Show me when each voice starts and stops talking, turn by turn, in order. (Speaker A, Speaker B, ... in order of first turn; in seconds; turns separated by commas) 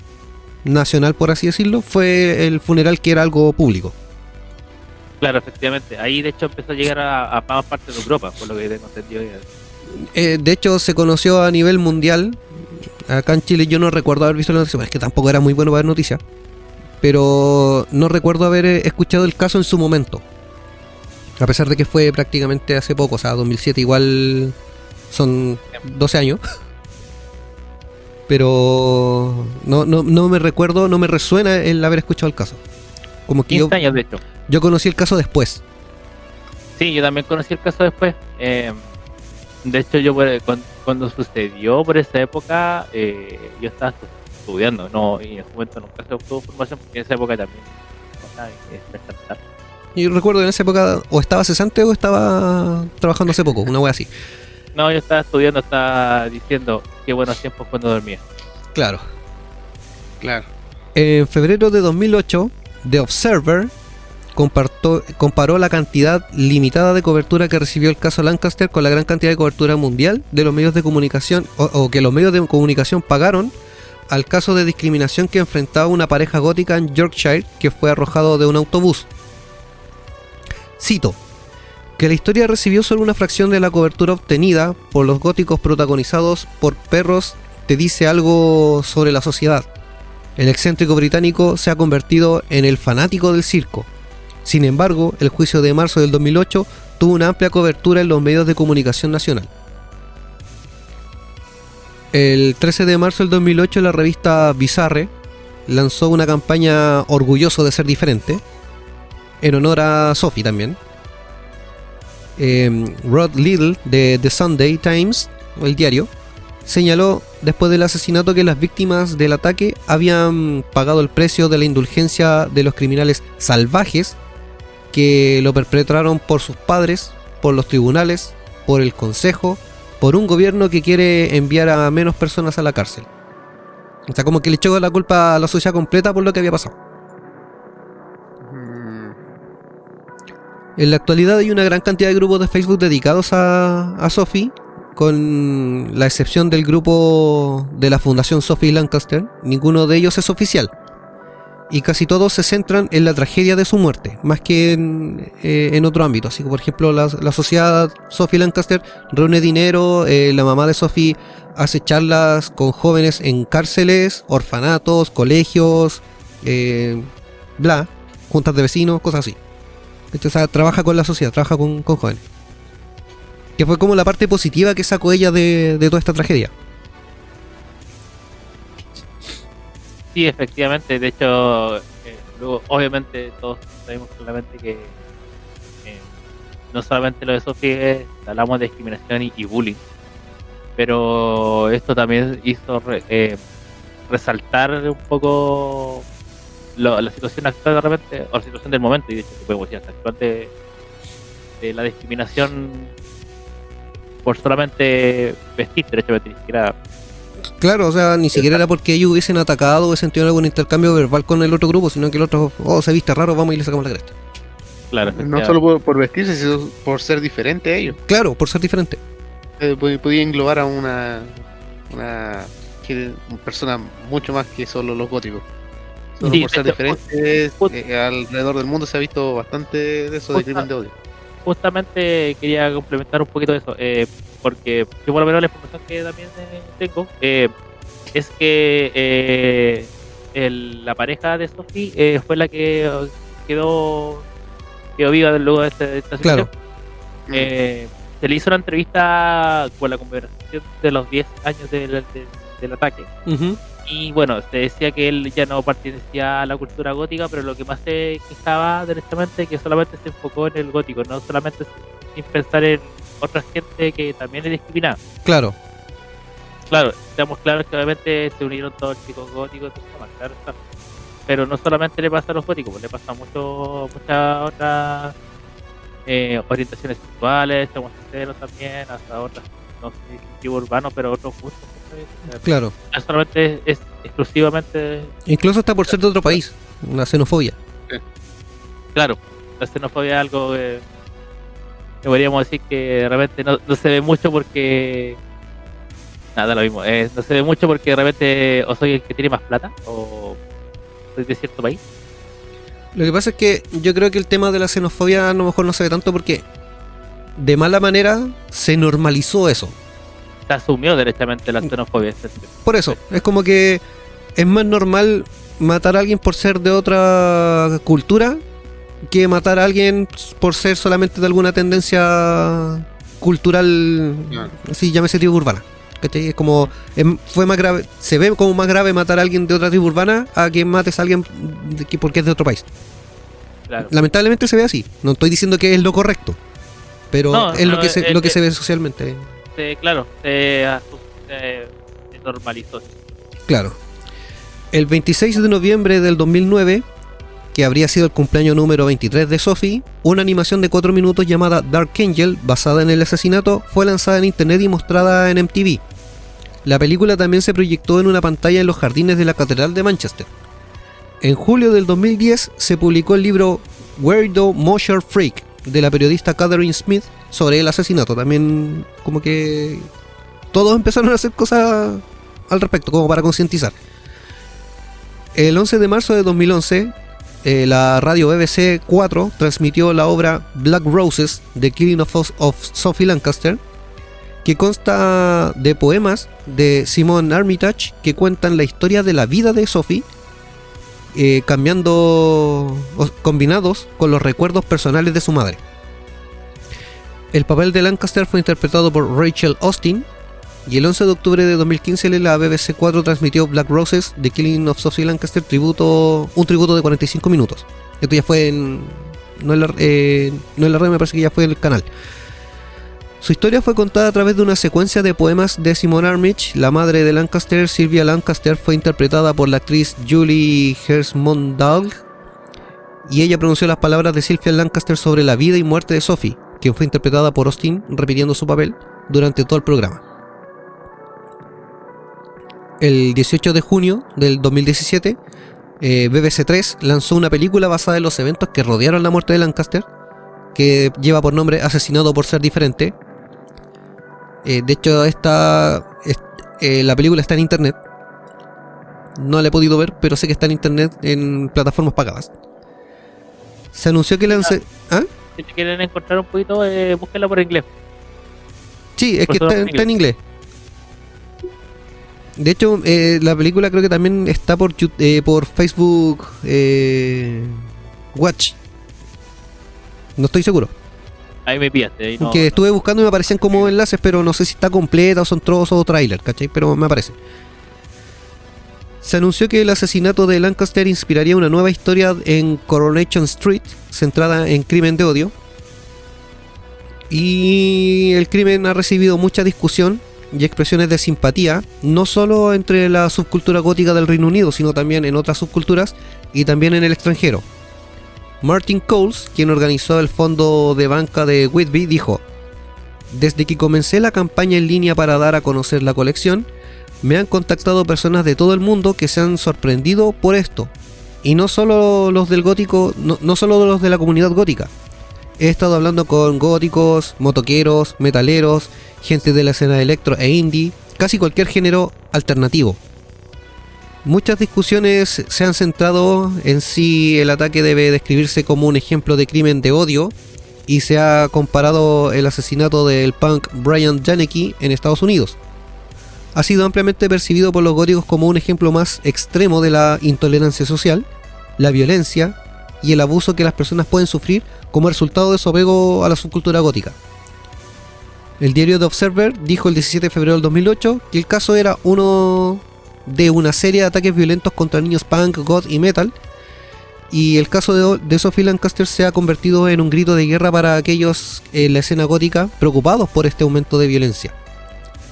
Speaker A: 0.6-4.0, Speaker B: 5.2-9.5, Speaker A: 9.9-16.2, Speaker A: 17.0-20.2, Speaker A: 21.4-24.6, Speaker A: 25.1-26.4, Speaker A: 28.3-32.6, Speaker A: 33.3-33.8, Speaker B: 33.5-34.2, Speaker A: 34.5-35.6, Speaker B: 36.8-38.8, Speaker B: 39.6-47.7, Speaker B: 48.2-49.4, Speaker A: 50.0-54.1, Speaker B: 54.8-58.2, Speaker A: 58.8-59.0, Speaker C: 60.2-60.5, Speaker A: 61.0-63.7, Speaker A: 64.3-73.5, Speaker A: 74.1-79.1, Speaker A: 80.8-81.2, Speaker A: 82.0-89.7, Speaker A: 90.4-93.9, Speaker A: 94.5-99.5, Speaker A: 102.1-105.1, Speaker A: 105.7-108.4, Speaker A: 109.4-110.8, Speaker A: 112.4-116.1, Speaker A: 116.7-124.2, Speaker A: 124.9-133.1, Speaker A: 134.1-136.8, Speaker C: 138.4-139.2, Speaker A: 140.8-150.7, Speaker A: 151.7-169.4, Speaker A: 170.1-172.2, Speaker A: 173.6-176.5, Speaker B: 180.1-184.9, Speaker B: 186.7-189.8, Speaker B: 190.8-193.4, Speaker B: 194.1-196.1, Speaker B: 196.8-200.5, Speaker B: 201.6-202.9, Speaker B: 204.2-206.8, Speaker A: 207.6-214.1, Speaker B: 214.9-215.6, Speaker C: 215.2-218.0, Speaker A: 218.1-219.0, Speaker C: 219.6-221.4, Speaker C: 221.9-225.4, Speaker C: 226.2-230.9, Speaker B: 226.2-227.0, Speaker B: 230.3-230.7, Speaker B: 231.5-237.5, Speaker B: 238.1-244.2, Speaker B: 245.0-246.5, Speaker A: 246.2-246.5, Speaker B: 247.3-253.1, Speaker A: 253.3-253.6, Speaker B: 253.8-265.0, Speaker A: 265.2-265.6, Speaker B: 266.7-270.6, Speaker B: 271.3-275.1, Speaker B: 276.1-285.1, Speaker A: 282.4-282.7, Speaker A: 285.3-287.6, Speaker B: 288.9-290.8, Speaker B: 292.0-295.2, Speaker B: 296.4-300.4, Speaker B: 301.1-301.8, Speaker A: 302.9-306.4, Speaker A: 307.4-309.8, Speaker B: 310.5-313.0, Speaker A: 312.6-313.8, Speaker A: 314.4-318.4, Speaker A: 319.1-332.7, Speaker A: 333.9-336.4, Speaker A: 337.1-339.3, Speaker B: 337.3-338.4, Speaker B: 339.6-342.9, Speaker A: 343.5-343.8, Speaker A: 344.7-346.9, Speaker A: 347.5-355.8, Speaker A: 356.6-360.3, Speaker A: 361.2-369.9, Speaker A: 370.5-373.8, Speaker A: 375.4-383.6, Speaker A: 384.4-390.1, Speaker A: 391.1-395.6, Speaker A: 397.3-400.1, Speaker A: 400.7-411.9, Speaker A: 413.2-422.0, Speaker A: 423.1-430.0, Speaker A: 432.8-435.2, Speaker A: 435.8-439.9, Speaker A: 440.6-443.0, Speaker A: 444.4-447.8, Speaker A: 449.2-452.3, Speaker A: 453.7-455.1, Speaker B: 455.4-457.7, Speaker A: 459.0-460.2, Speaker B: 459.3-459.9, Speaker A: 462.4-468.6, Speaker A: 470.2-470.7, Speaker B: 471.5-472.6, Speaker A: 472.2-477.2, Speaker A: 479.0-485.3, Speaker A: 487.1-497.5, Speaker A: 498.4-502.2, Speaker A: 503.1-506.5, Speaker A: 507.0-510.7, Speaker A: 511.2-514.7, Speaker A: 515.4-522.8, Speaker A: 524.0-530.1, Speaker A: 530.7-535.4, Speaker A: 536.3-541.1, Speaker A: 541.6-547.0, Speaker A: 548.4-556.1, Speaker A: 557.1-564.4